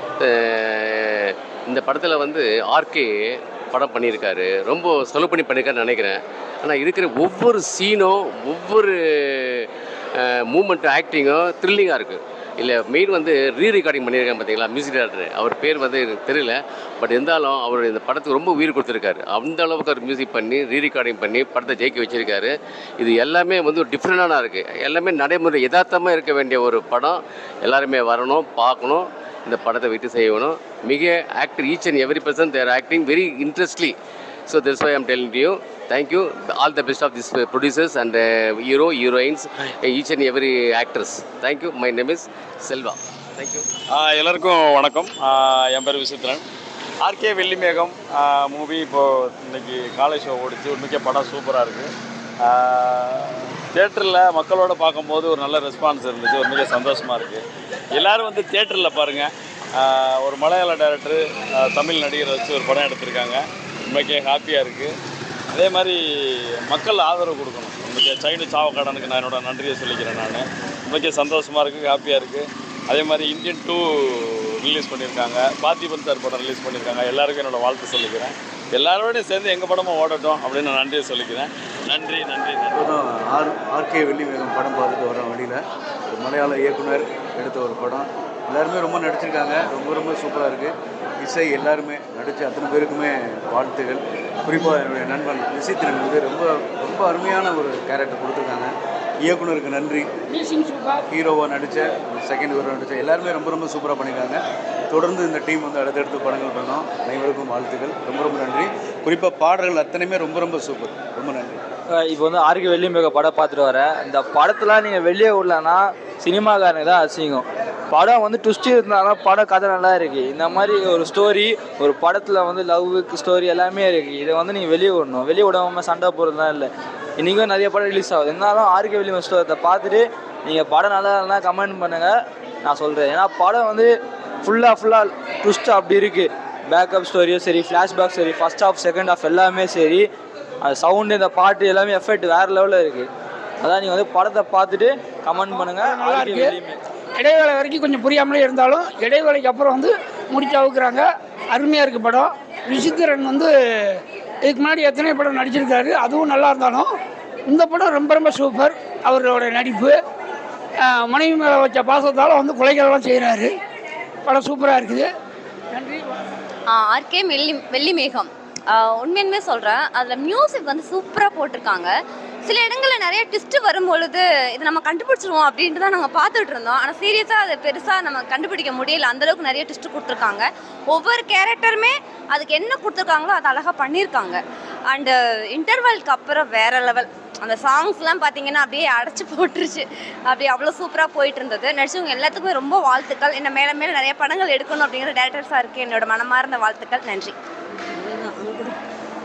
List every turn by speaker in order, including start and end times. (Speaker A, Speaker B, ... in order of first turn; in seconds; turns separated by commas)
Speaker A: 0.2-34.0, Speaker A: 34.5-43.7, Speaker B: 43.9-46.4, Speaker B: 47.0-51.9, Speaker B: 52.4-57.4, Speaker B: 57.9-64.9, Speaker B: 65.5-66.0, Speaker B: 66.7-82.8, Speaker C: 82.7-98.7, Speaker C: 99.2-100.1, Speaker D: 100.3-101.0, Speaker C: 101.1-111.6, Speaker E: 111.9-133.9, Speaker E: 134.4-140.1, Speaker E: 140.6-143.1, Speaker E: 143.6-146.8, Speaker D: 145.6-146.6, Speaker D: 147.2-153.5, Speaker D: 154.5-156.9, Speaker D: 157.5-160.0, Speaker D: 160.9-163.5, Speaker D: 164.3-165.1, Speaker F: 166.7-197.3